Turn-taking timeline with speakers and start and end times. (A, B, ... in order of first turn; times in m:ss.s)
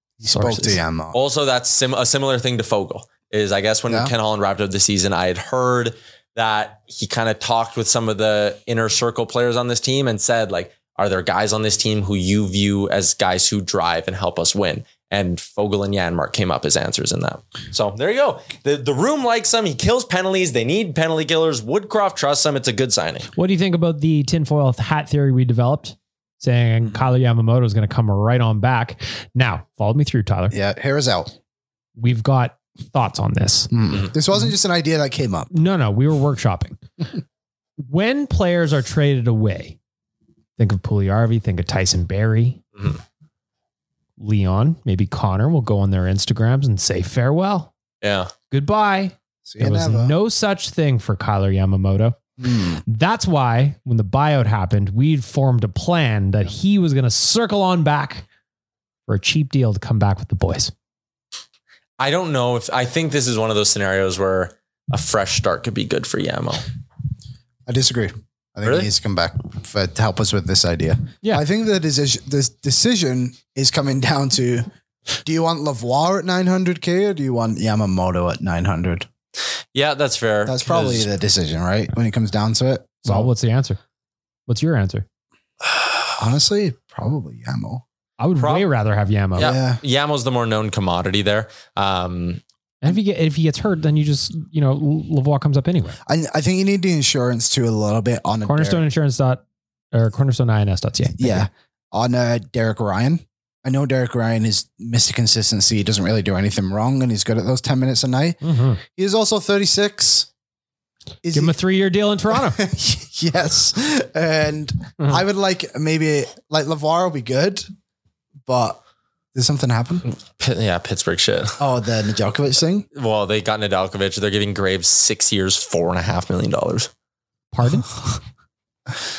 0:00.2-0:01.2 A
0:00.3-0:00.8 B
0:01.1-0:23.3 C
0:23.4-0:30.6 B
0:30.5-0:31.3 A
0:32.0-0:33.7 B
0:33.7-0:35.5 A
0:35.5-0:36.8 B
0:37.8-0:39.8 B
0:40.6-0:42.6 B
0:44.2-0:47.7 B
0:48.0-0:48.3 C
0:48.5-0:52.2 B
0:49.5-0:50.2 A
0:52.4-0:52.8 A
0:52.9-0:58.2 B
0:59.1-1:00.7 B
1:02.0-1:06.6 C
1:07.7-1:14.7 A
1:15.2-1:19.1 A
1:19.7-1:21.1 C
1:20.5-1:23.3 A
1:23.0-1:23.8 B
1:24.5-1:25.0 B
1:26.2-1:27.8 A
1:28.2-1:29.5 B
1:28.4-1:28.7 C
1:29.4-1:32.4 C
1:29.4-1:29.8 A
1:32.8-1:36.0 B
1:36.1-1:38.8 A
1:38.4-1:39.4 B
1:39.9-1:41.5 B
1:41.2-1:50.3 A
1:48.4-1:48.8 B
1:51.2-1:51.6 A
1:51.3-1:52.6 B
1:52.3-1:57.7 A
1:58.5-1:58.8 A
1:59.4-2:00.0 A
2:00.1-2:01.6 C
2:01.6-2:02.9 A
2:03.0-2:06.9 C
2:07.5-2:07.9 B